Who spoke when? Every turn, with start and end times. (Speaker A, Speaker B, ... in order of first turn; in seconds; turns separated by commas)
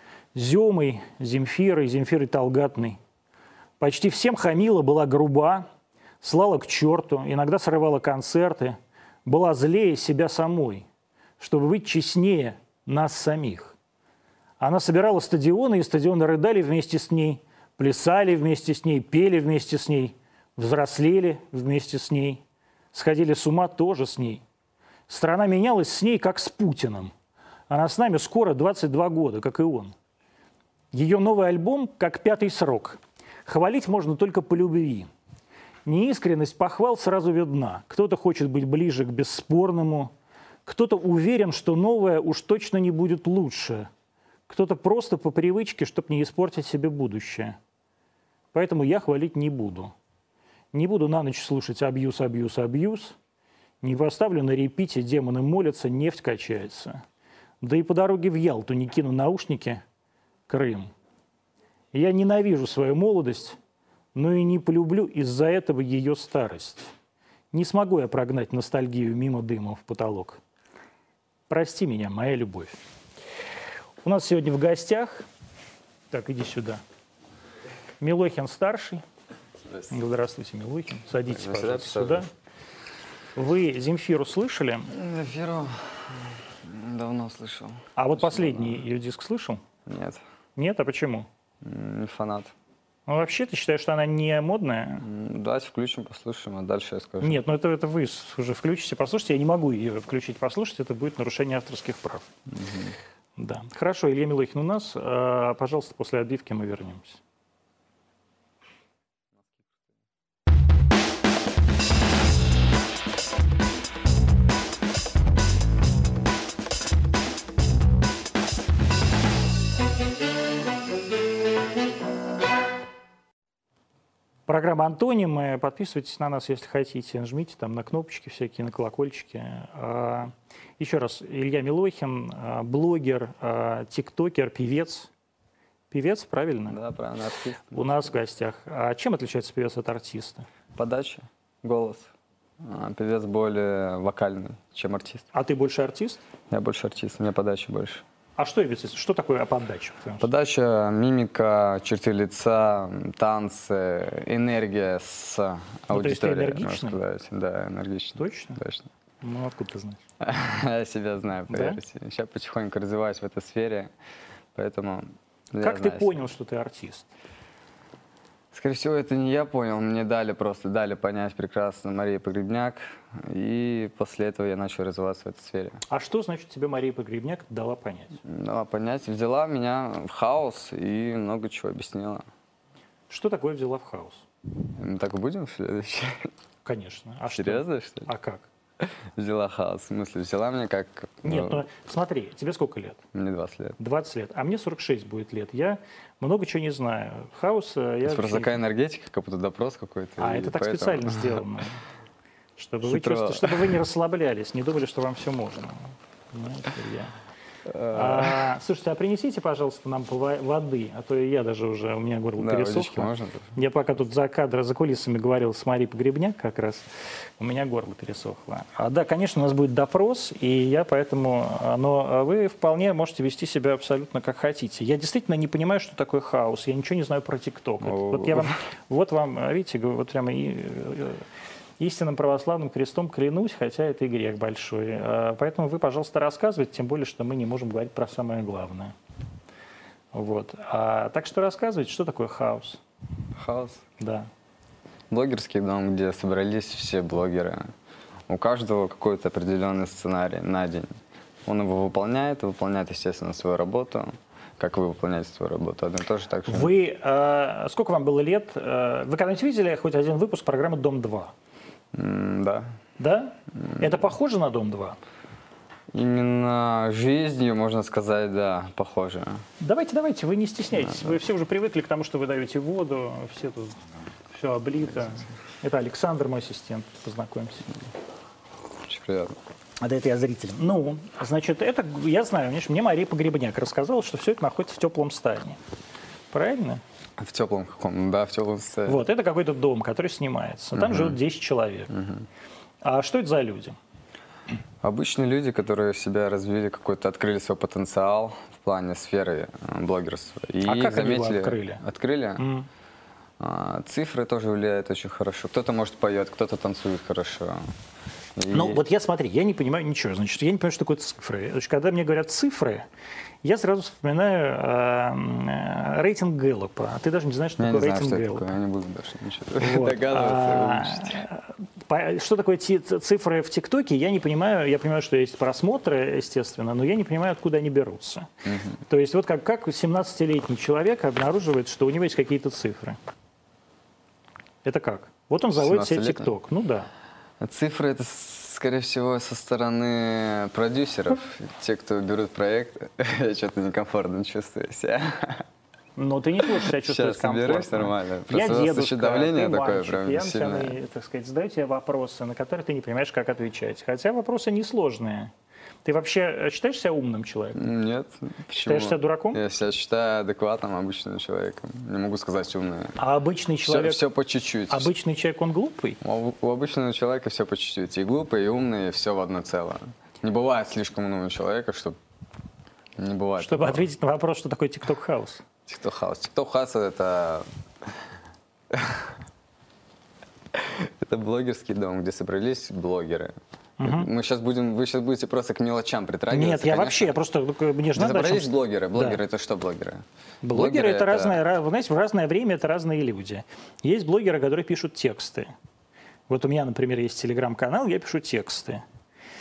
Speaker A: 0.3-3.0, Speaker A: 3.8-5.7, Speaker A: 6.2-10.9, Speaker A: 11.4-13.8, Speaker A: 14.6-24.4, Speaker A: 25.1-27.1, Speaker A: 27.7-29.9, Speaker A: 30.9-35.1, Speaker A: 35.9-40.1, Speaker A: 40.7-43.9, Speaker A: 44.5-47.6, Speaker A: 48.5-49.9, Speaker A: 50.7-53.2, Speaker A: 53.8-57.0, Speaker A: 57.6-59.8, Speaker A: 60.5-60.9, Speaker A: 61.9-63.6, Speaker A: 64.2-66.9, Speaker A: 67.5-70.4, Speaker A: 71.5-72.8, Speaker A: 74.0-75.3, Speaker A: 76.1-76.8, Speaker A: 78.0-79.0, Speaker A: 79.9-82.3, Speaker B: 81.3-82.2, Speaker A: 83.4-84.9, Speaker B: 84.9-88.8, Speaker A: 88.0-89.6, Speaker B: 89.9-90.2, Speaker A: 90.6-91.3, Speaker B: 91.6-92.5, Speaker A: 93.1-95.1, Speaker B: 95.0-97.4, Speaker A: 97.2-102.3, Speaker B: 102.5-103.0, Speaker A: 103.4-107.2, Speaker A: 124.5-135.1, Speaker A: 135.9-136.8, Speaker B: 136.7-138.1, Speaker A: 137.7-140.5, Speaker B: 140.8-145.3, Speaker A: 145.3-146.2, Speaker B: 146.5-148.0, Speaker A: 148.4-150.3, Speaker B: 150.2-158.9, Speaker A: 155.9-157.0, Speaker A: 158.2-158.6, Speaker A: 159.2-160.0, Speaker B: 160.2-163.9, Speaker A: 161.5-161.8, Speaker B: 164.6-166.2, Speaker A: 165.6-167.1, Speaker B: 168.5-175.8, Speaker A: 175.9-178.2, Speaker B: 178.2-182.2, Speaker A: 183.1-184.2, Speaker B: 184.8-186.3, Speaker A: 186.7-188.5, Speaker B: 187.3-188.1, Speaker B: 188.8-191.7, Speaker A: 191.2-193.0, Speaker B: 193.1-193.8, Speaker A: 193.8-198.6, Speaker B: 198.1-201.4, Speaker A: 200.2-201.8, Speaker A: 202.6-207.1, Speaker B: 202.8-203.7, Speaker B: 207.7-208.5, Speaker A: 207.9-216.9, Speaker B: 212.4-213.6, Speaker A: 217.4-231.2, Speaker B: 227.8-228.6, Speaker A: 231.8-238.9, Speaker A: 240.1-242.8, Speaker B: 243.3-243.8, Speaker A: 244.0-244.3, Speaker B: 245.1-247.7, Speaker B: 248.3-250.9, Speaker B: 251.5-256.7, Speaker A: 256.5-261.3, Speaker B: 261.9-262.8, Speaker A: 263.0-265.0, Speaker B: 265.9-269.4, Speaker A: 269.6-273.8, Speaker B: 270.8-271.2, Speaker A: 274.3-277.7, Speaker B: 278.8-279.4, Speaker A: 279.8-285.6, Speaker A: 286.3-286.8, Speaker B: 287.2-289.1, Speaker A: 288.9-291.9, Speaker B: 290.8-291.2, Speaker B: 291.9-292.3, Speaker A: 292.8-293.8, Speaker B: 294.8-302.4, Speaker A: 300.6-301.8, Speaker A: 302.4-302.7, Speaker B: 303.4-307.7, Speaker B: 308.4-308.8, Speaker A: 308.5-312.9, Speaker A: 313.4-318.5, Speaker B: 317.6-321.2, Speaker A: 319.6-333.0, Speaker B: 328.4-328.8, Speaker A: 334.6-336.9, Speaker B: 335.6-336.3, Speaker B: 337.4-345.5, Speaker A: 346.0-355.3, Speaker B: 346.4-350.8, Speaker A: 355.9-357.7, Speaker B: 357.5-363.0, Speaker A: 358.5-359.4, Speaker A: 363.0-364.1, Speaker B: 363.6-364.9, Speaker A: 364.7-366.0, Speaker B: 366.0-372.0, Speaker B: 373.0-373.9, Speaker A: 373.4-375.4, Speaker B: 375.7-377.5, Speaker B: 378.7-379.2, Speaker B: 380.5-387.1, Speaker A: 383.8-384.1, Speaker A: 386.3-389.2, Speaker B: 387.9-391.4, Speaker A: 390.4-395.5, Speaker A: 396.3-398.8